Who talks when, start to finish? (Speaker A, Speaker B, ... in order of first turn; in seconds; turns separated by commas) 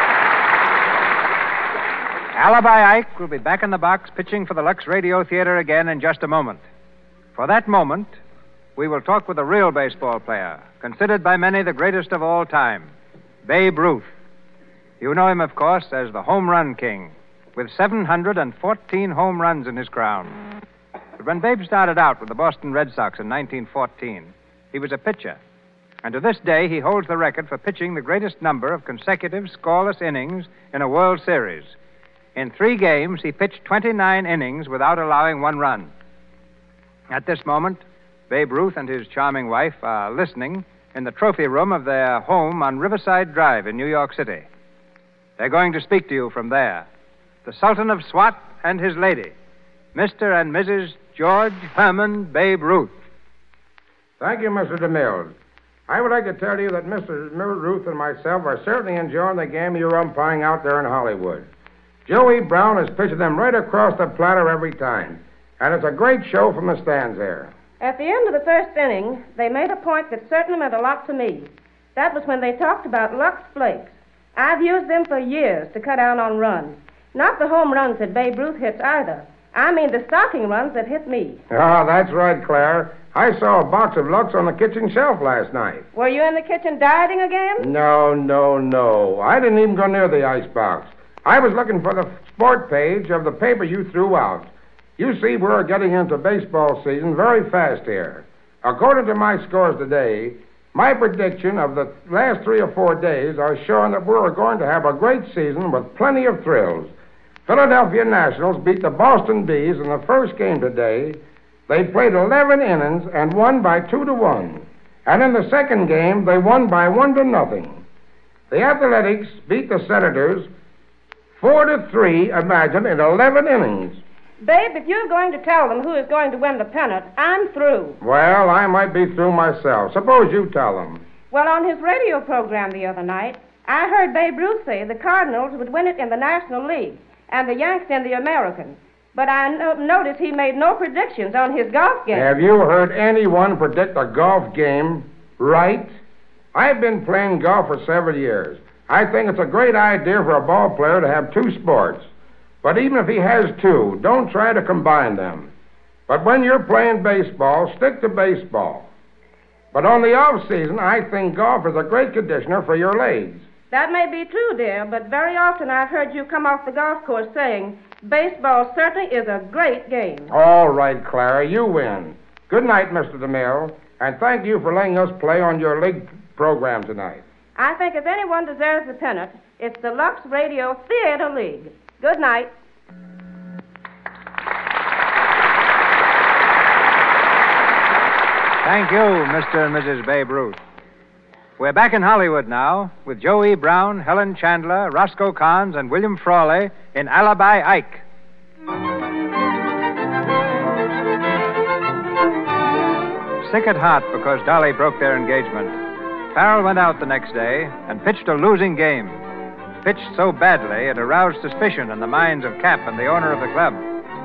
Speaker A: 2.3-6.6, Speaker A: 7.3-8.2, Speaker A: 8.8-12.9, Speaker A: 13.4-14.1, Speaker A: 15.0-20.4, Speaker A: 21.2-25.4, Speaker A: 26.0-31.8, Speaker A: 32.4-35.9, Speaker A: 37.1-44.5, Speaker A: 45.4-46.9, Speaker A: 47.5-49.3, Speaker A: 49.9-53.0, Speaker B: 54.2-55.4, Speaker B: 55.9-61.5, Speaker B: 62.1-67.5, Speaker C: 67.8-81.4, Speaker B: 81.5-85.9, Speaker C: 85.9-87.7, Speaker B: 87.6-106.9, Speaker B: 107.5-117.8, Speaker B: 118.5-120.5, Speaker B: 121.4-124.0, Speaker C: 124.4-128.0, Speaker B: 128.0-131.1, Speaker C: 131.3-142.3, Speaker B: 142.1-145.9, Speaker B: 146.5-152.1, Speaker B: 152.6-155.5, Speaker B: 156.1-158.9, Speaker B: 159.7-163.5, Speaker C: 163.7-170.3, Speaker B: 170.3-177.2, Speaker C: 177.6-182.5, Speaker A: 188.6-190.6, Speaker A: 191.6-198.0, Speaker A: 203.4-205.8, Speaker A: 206.3-209.2, Speaker A: 209.8-213.9